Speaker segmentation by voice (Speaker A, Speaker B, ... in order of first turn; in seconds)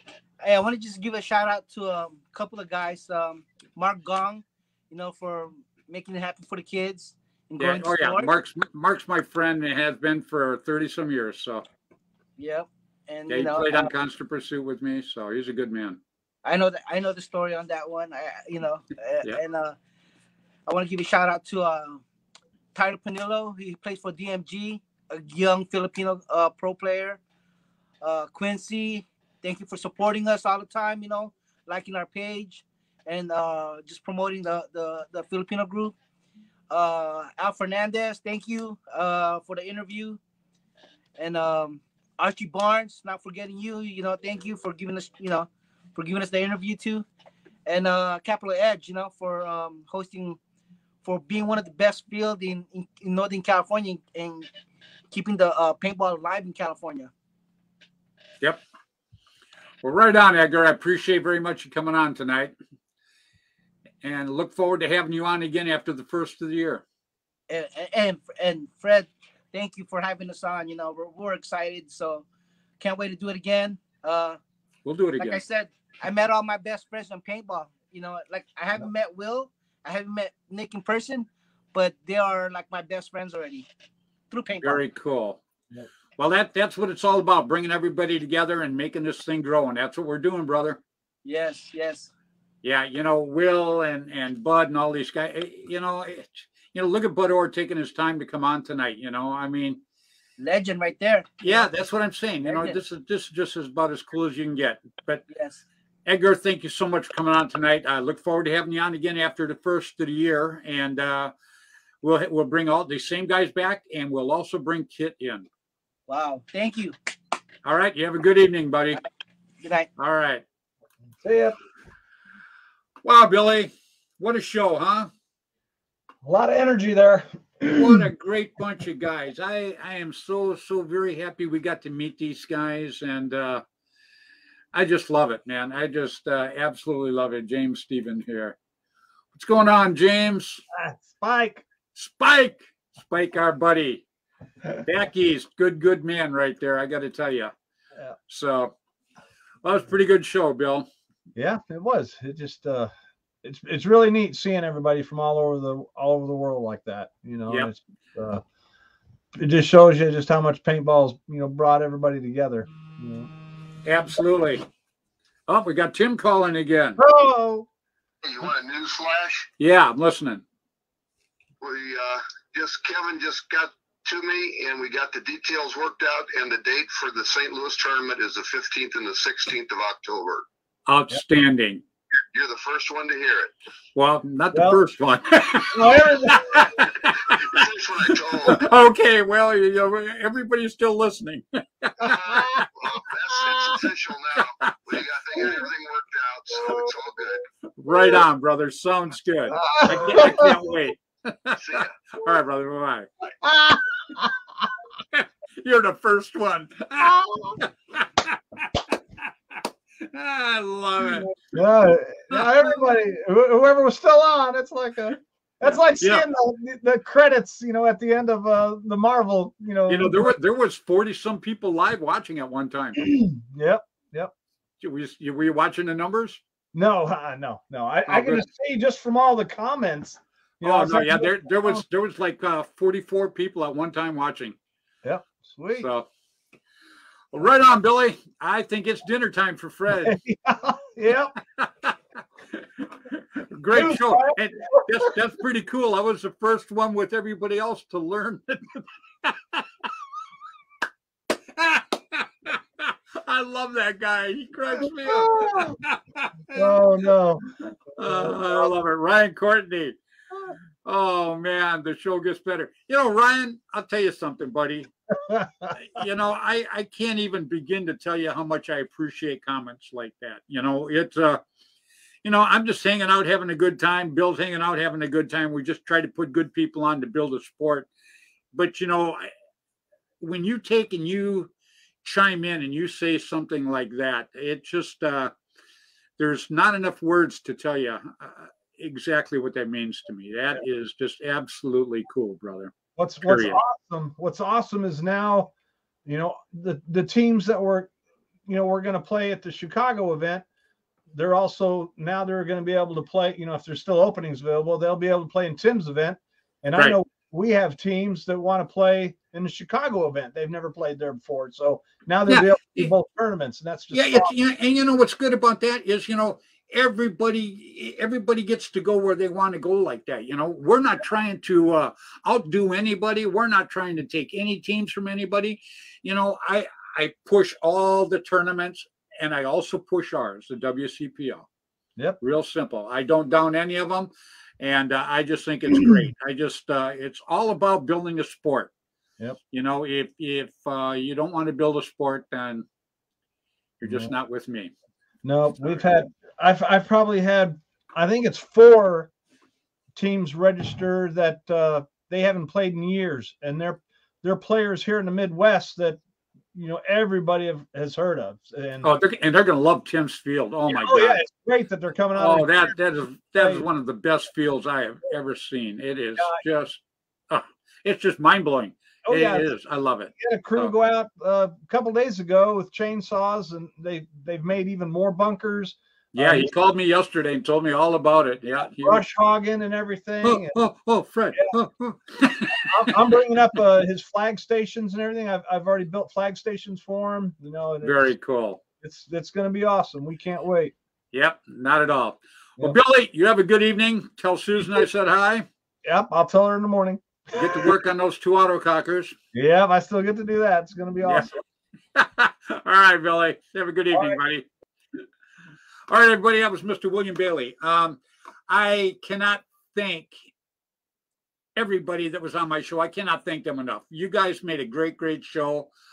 Speaker A: 0.4-8.3, 12.4-13.9, 16.4-19.8, 20.7-22.0, 22.7-27.2, 28.0-35.9, 36.7-40.2, 41.2-47.0, 47.6-50.4, 51.0-54.5, 55.1-57.1, 67.5-72.2, 72.8-74.4, 75.2-83.7, 84.3-84.8, 91.2-92.1, 100.4-101.7, 102.4-102.8, 105.3-105.6, 116.1-116.9, 119.6-119.9
Speaker B: 7.6-11.6, 13.3-16.0, 59.8-62.5, 64.0-66.8, 74.8-75.4, 84.6-85.4, 86.2-90.8, 92.6-99.8, 101.4-105.2, 106.0-111.3, 112.0-115.5, 117.6-119.0, 120.0-120.4, 123.0-125.1, 127.7-133.6, 134.7-138.6, 139.3-140.6, 141.9-144.0, 144.8-147.5, 148.3-148.7, 149.6-150.9, 163.8-164.6, 165.5-167.0, 169.6-170.4, 180.9-181.8, 183.9-187.6, 188.4-192.6, 194.4-194.7, 197.8-203.1, 205.1-208.9, 210.0-211.3, 212.3-212.8, 215.6-216.2, 219.9-223.0, 224.8-226.4, 228.1-228.5, 230.6-234.6, 235.8-236.1, 237.3-240.2, 241.6-241.9, 242.6-249.6, 251.6-256.8, 257.9-259.9, 260.8-264.9, 265.8-271.4, 272.2-277.9, 278.5-279.3, 280.2-281.5, 282.0-285.3, 286.2-293.6, 312.3-312.9, 313.9-331.4, 332.2-338.7, 339.5-342.6, 343.8-344.7, 345.6-345.9, 358.8-361.2, 362.2-370.7, 376.1-379.1, 380.2-383.2, 387.8-388.6, 391.1-395.4, 397.3-399.1, 401.0-401.3, 401.9-404.5, 405.9-410.1, 411.6-415.7
Speaker C: 121.2-121.6, 126.2-128.1, 140.7-141.6, 151.3-158.4, 159.4-163.3, 167.0-167.7, 184.5-184.8, 185.7-186.7, 199.5-200.6, 203.4-204.4, 207.0-207.6, 211.3-220.3, 223.0-224.3, 226.7-231.8, 235.0-235.9, 240.0-241.3, 243.7-245.1, 255.0-255.8, 256.5-257.4, 258.0-258.7, 265.1-265.7, 292.9-295.5, 296.0-297.9, 298.5-300.4, 301.1-314.3, 335.7-336.1, 343.8-344.1, 345.2-349.1, 349.9-356.0, 356.5-358.9, 360.7-363.6, 366.2-366.4, 369.1-369.5, 370.2-376.5, 378.8-380.5, 382.6-388.1, 388.8-390.7, 395.8-397.7, 399.3-401.4, 403.9-404.2
Speaker D: 168.2-169.5, 171.6-180.4, 182.3-183.5, 187.2-188.7, 192.0-197.4, 201.6-202.0